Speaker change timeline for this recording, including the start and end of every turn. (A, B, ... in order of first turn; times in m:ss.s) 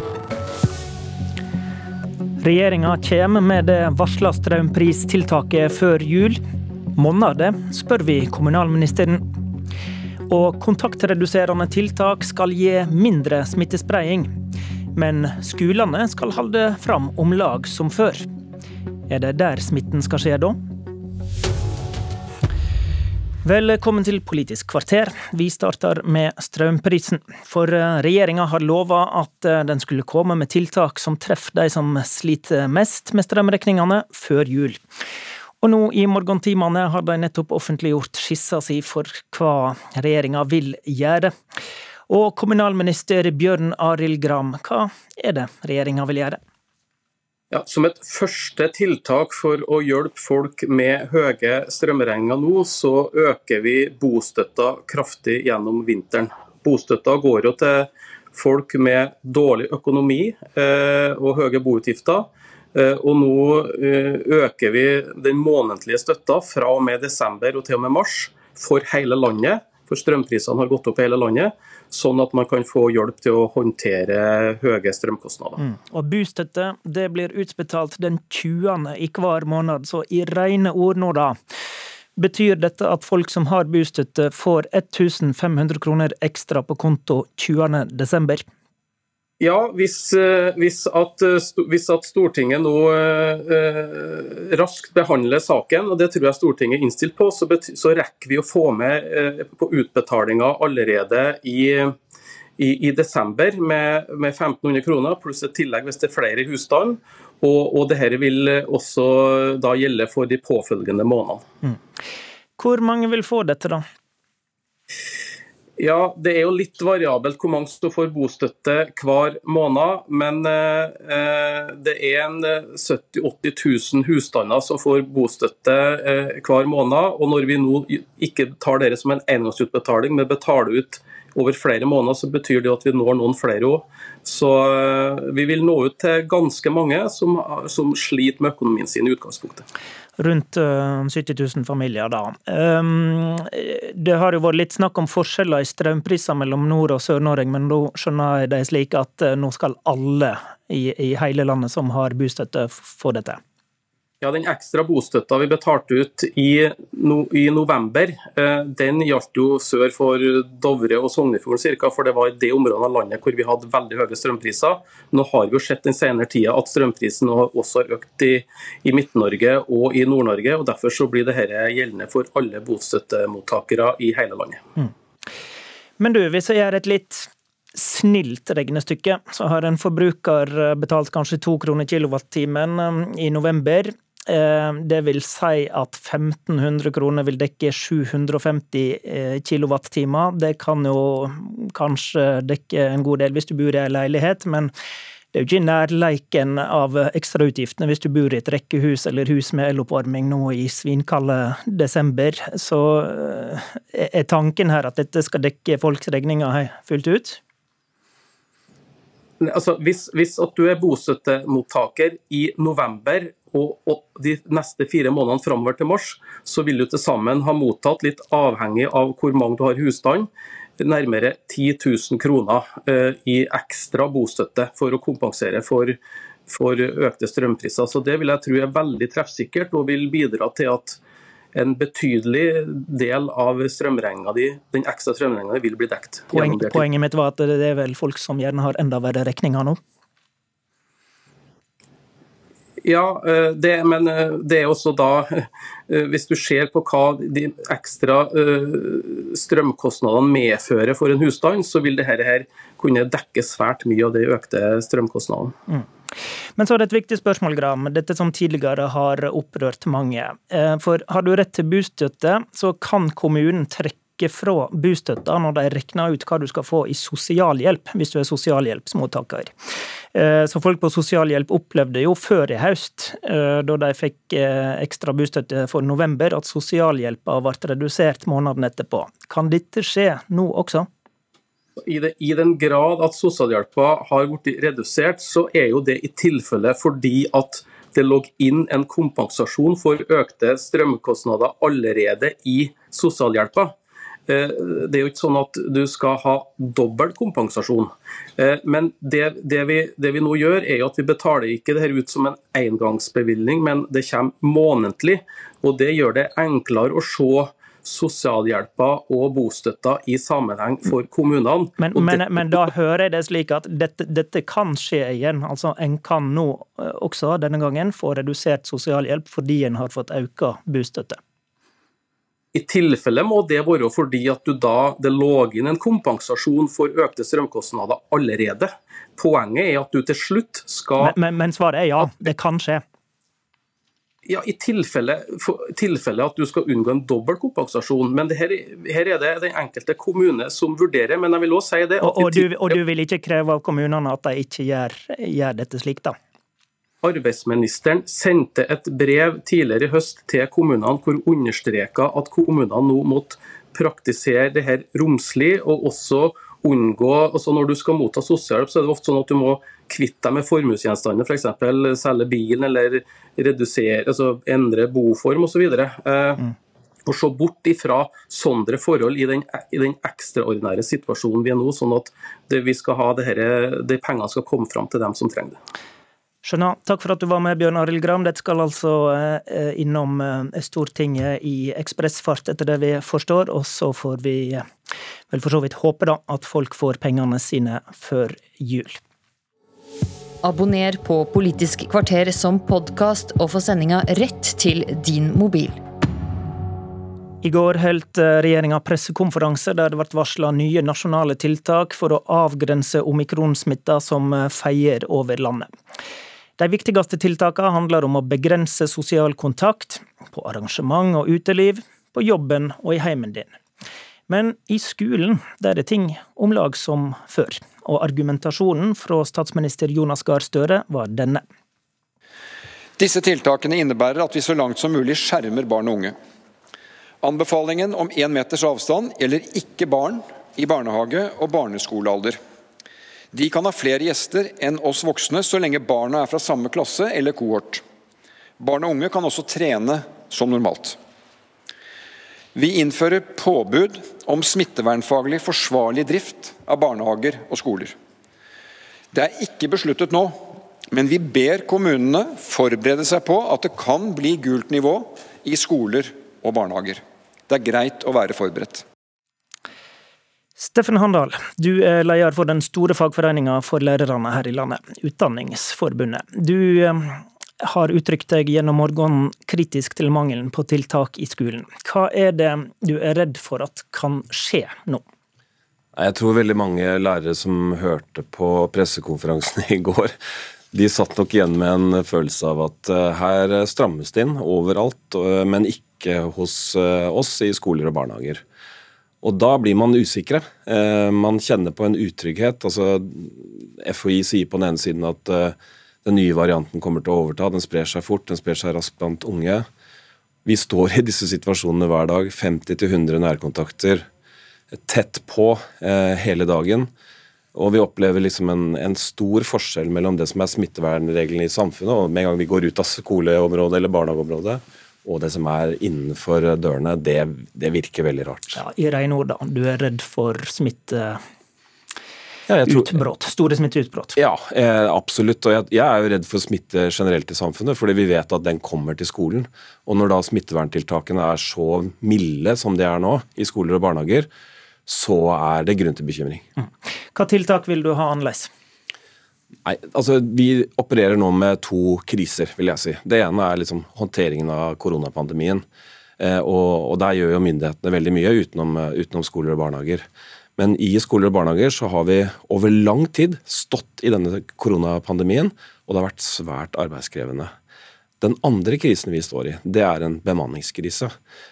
0:02.4-0:06.4 A
0:07.0-0:09.3 A
0:10.3-0:14.3 A
0:14.9-0:18.2 A
0:19.1-0:20.6 A
0:23.4-0:34.8 A
0:35.6-0:41.3 A
0:42.1-0:46.4 A
0:47.5-1:15.6 B
1:15.6-1:21.4 A
1:22.2-1:28.4 A
1:29.4-1:41.9 B
1:42.6-1:51.4 B
1:52.6-1:53.8 A
1:55.8-2:19.6 B
2:20.2-2:33.4 A
2:34.2-2:54.6 B
2:56.0-3:14.7 A
3:15.3-3:27.4 A
3:29.4-3:51.0 B
3:51.5-3:56.9 B
3:56.3-3:59.8 A
4:02.8-4:15.6 B
4:16.6-4:29.5 A
4:30.1-4:40.9 A
4:41.8-4:53.8 B
4:54.3-5:12.7 B
5:11.8-5:21.2 A
5:22.5-5:31.2 B
5:31.0-5:32.8 A
5:34.3-5:42.8 B
5:42.0-5:46.2 A
5:47.0-6:06.5 B
6:07.1-6:15.6 B
6:16.4-6:24.6 A
6:25.3-6:29.0 A
6:30.4-6:35.8 C
6:37.4-6:45.7 A
6:46.6-6:53.5 A
6:54.3-7:01.4 A
7:03.0-7:06.2 D
7:07.2-7:12.4 D
7:13.3-7:17.8 D
7:18.6-7:21.0 D
7:22.6-7:27.9 D
7:29.1-7:30.4 D
7:30.9-7:38.8 D
7:40.6-7:55.0 A
7:56.0-8:00.1 E
8:00.7-8:08.4 E
8:09.2-8:19.6 E
8:20.4-8:24.1 E
8:24.7-8:26.9 E
8:27.5-8:38.6 E
8:38.5-8:41.2 A
8:42.5-8:43.0 E
8:42.6-8:44.2 A
8:44.2-8:54.3 E
8:54.9-8:56.4 E
8:57.1-8:58.5 A
8:59.6-9:05.6 E
9:06.2-9:10.1 E
9:10.6-9:17.5 E
9:18.2-9:21.1 E